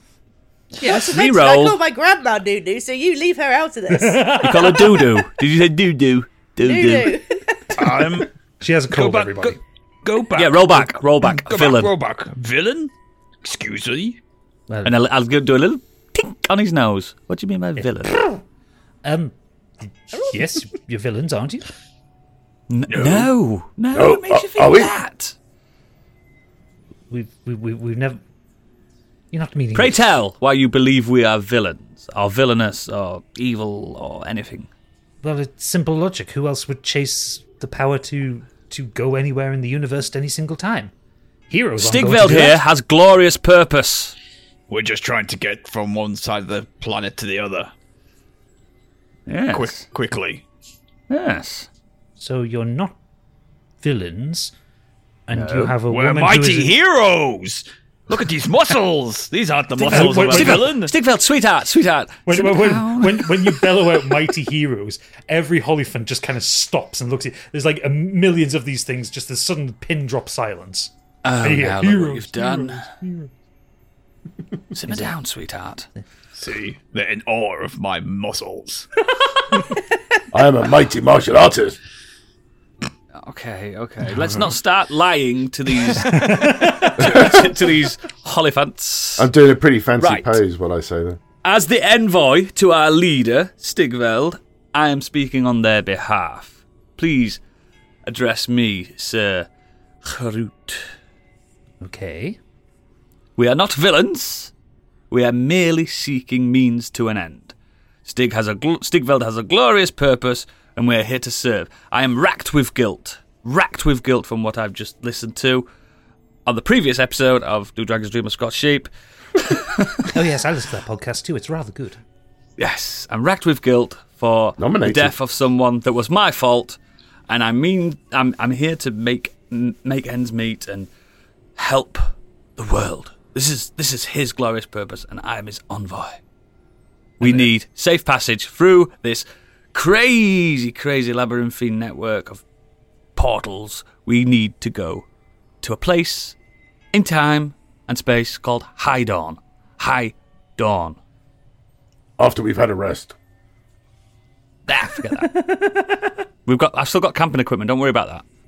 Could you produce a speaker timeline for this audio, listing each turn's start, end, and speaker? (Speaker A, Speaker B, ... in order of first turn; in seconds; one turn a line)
Speaker A: 0.8-4.5
Speaker B: 0.8-1.8
Speaker C: 3.9-5.0
Speaker B: 4.4-7.2
Speaker A: 6.6-7.7
Speaker D: 7.7-8.3
Speaker C: 8.6-9.6
Speaker D: 8.9-12.9
Speaker B: 10.3-11.9
Speaker D: 13.4-14.2
Speaker C: 14.7-14.9
Speaker B: 14.8-18.2
Speaker C: 17.8-18.4
Speaker C: 19.0-21.7
Speaker B: 22.7-25.3
Speaker D: 22.9-23.3
Speaker E: 23.9-24.9
Speaker C: 27.1-28.2
Speaker C: 29.3-30.1
Speaker B: 29.7-34.7
Speaker C: 35.2-40.9
Speaker C: 41.5-42.6
Speaker B: 41.8-44.1
Speaker D: 44.7-47.7
Speaker B: 49.3-49.9
Speaker D: 49.5-50.4
Speaker B: 51.1-51.7
Speaker C: 52.2-53.0
Speaker C: 53.8-54.5
Speaker C: 55.3-56.8
Speaker B: 55.3-55.8
Speaker D: 55.8-60.9
Speaker B: 59.8-63.6
Speaker C: 59.9-60.7
Speaker C: 62.3-73.3
Speaker B: 71.2-72.9
Speaker B: 74.7-75.9
Speaker D: 76.3-78.9
Speaker E: 80.3-81.8
Speaker B: 83.2-89.3
Speaker C: 85.9-87.2
Speaker E: 87.0-87.5
Speaker E: 89.2-91.2
Speaker B: 90.0-90.4
Speaker B: 91.4-97.4
Speaker B: 98.0-99.5
Speaker B: 100.0-100.9
Speaker C: 101.8-102.4
Speaker B: 103.4-104.5
Speaker B: 105.1-107.5
Speaker B: 108.0-115.7
Speaker B: 116.5-120.1
Speaker C: 120.1-122.0
Speaker B: 122.6-126.8
Speaker E: 124.6-125.1
Speaker B: 127.3-130.9
Speaker B: 131.6-136.2
Speaker B: 137.2-142.4
Speaker C: 137.2-137.5
Speaker B: 143.2-145.1
Speaker B: 145.6-146.3
Speaker B: 146.9-151.0
Speaker E: 152.2-153.1
Speaker B: 154.7-155.3
Speaker C: 155.2-156.1
Speaker B: 156.5-158.2